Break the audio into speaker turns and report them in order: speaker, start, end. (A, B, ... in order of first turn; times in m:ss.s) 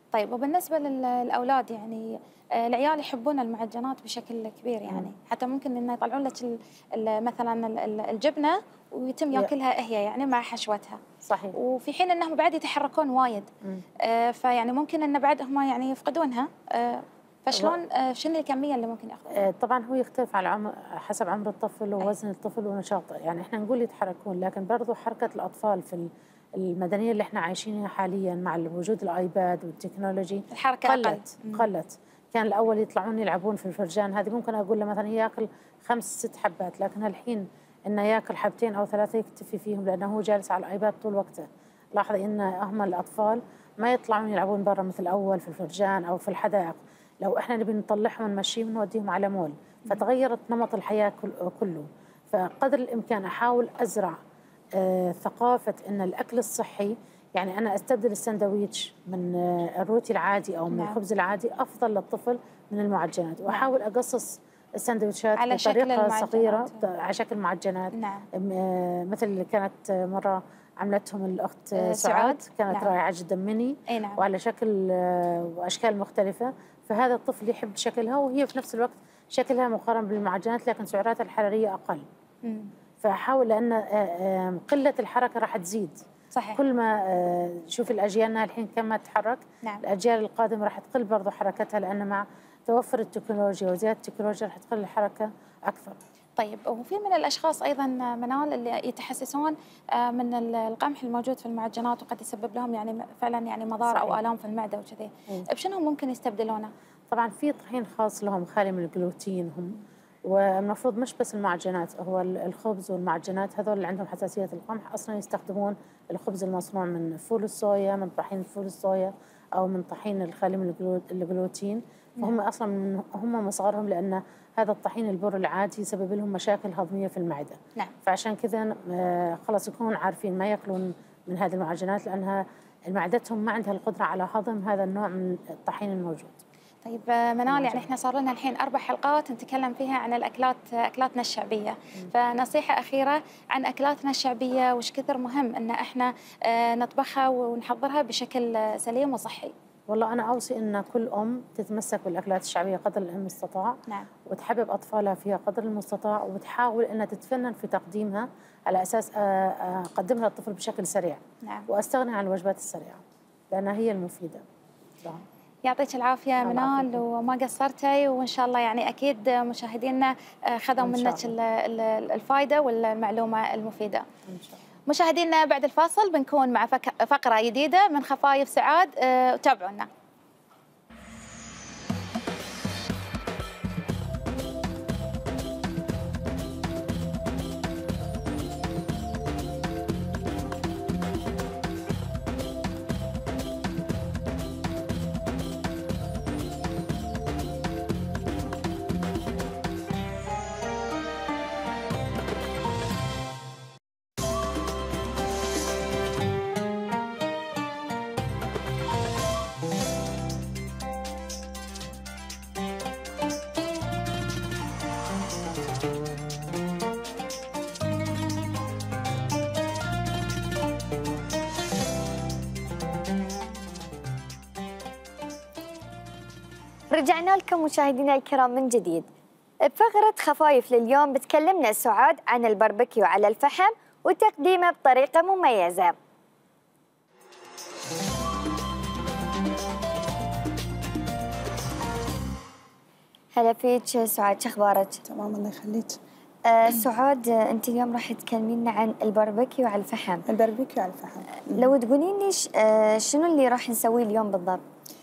0:00.1-0:11.0 A
0:11.2-0:11.6 B
0:11.5-0:13.5 A
0:14.0-0:19.5 A
0:19.3-0:54.2 B
0:30.5-0:31.7 A
0:54.8-1:22.1 B
1:00.7-1:01.0 A
1:05.4-1:06.8 A
1:07.9-1:08.3 A
1:11.8-1:12.9 A
1:13.9-1:14.2 A
1:22.4-1:22.7 A
1:23.0-1:26.0 B
1:26.4-1:26.6 A
1:26.5-1:36.0 B
1:36.4-1:46.7 A
1:43.9-1:44.2 B
1:47.1-2:16.4 B
2:16.8-2:29.5 A
2:17.5-2:17.9 B
2:29.9-2:44.4 B
2:45.6-2:54.1 A
2:46.4-2:47.0 B
2:50.8-2:51.3 B
2:54.3-2:54.6 B
2:54.9-2:59.9 A
3:46.9-3:49.1 C
3:49.7-3:56.0 C
4:03.4-4:05.0 C
4:05.0-4:06.0 D
4:06.4-4:10.2 C
4:10.3-4:11.7 D
4:11.5-4:14.6 C